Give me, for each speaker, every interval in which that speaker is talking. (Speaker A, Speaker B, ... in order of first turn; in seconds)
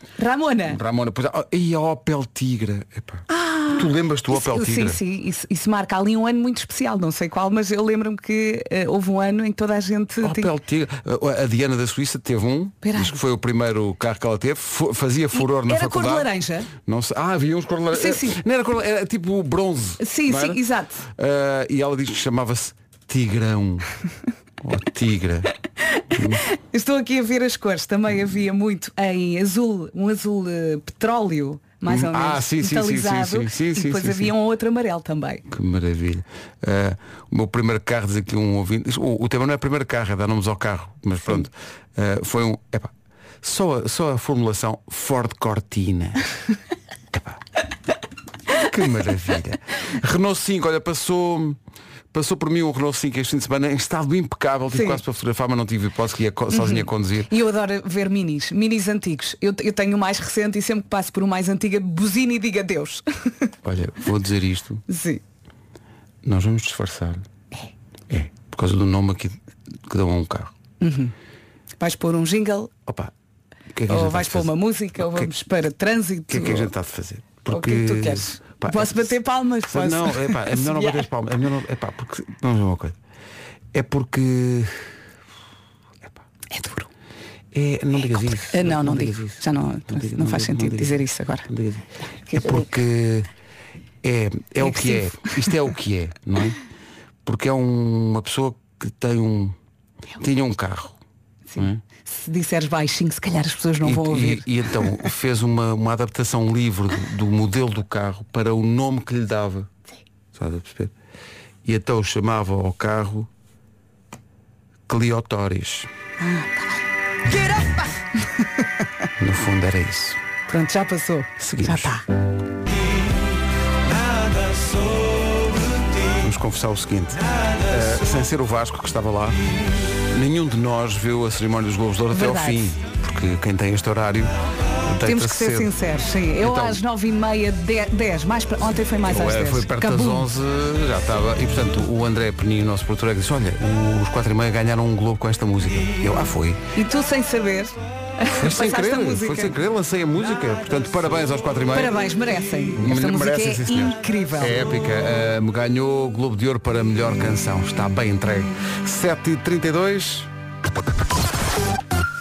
Speaker A: 0.2-0.8, 3.3-10.5, 12.8-13.2, 15.3-16.7, 17.9-18.4, 20.0-21.1, 25.9-35.4, 54.7-55.0, 56.5-63.5, 64.9-65.2, 70.8-71.1, 71.8-72.7, 73.9-76.7, 77.5-81.1, 86.5-86.9, 88.5-91.5, 92.3-92.7, 94.6-95.4, 101.5-104.5, 116.2-118.5, 120.5-122.0, 132.1-132.7, 135.0-140.3, 146.8-149.5, 151.7-154.6
Speaker B: 0.7-5.0, 10.2-16.3, 16.8-23.9, 24.6-25.5, 26.1-26.4, 31.9-34.3, 35.5-42.9, 43.4-46.2, 47.1-47.4, 48.5-51.6, 52.1-57.3, 63.6-64.8, 66.2-67.2, 68.1-70.5, 72.9-73.1, 73.7-75.3, 76.3-79.1, 79.7-83.0, 83.7-84.8, 87.5-93.3, 94.0-96.6, 97.2-99.6, 100.2-101.0, 103.8-109.7, 110.3-110.9, 111.7-113.3, 114.9-115.9, 119.2-120.2, 121.4-122.0, 126.2-129.4, 130.1-134.3, 134.8-135.7, 136.4-136.8, 139.1-146.6, 148.4-151.9, 152.8-160.3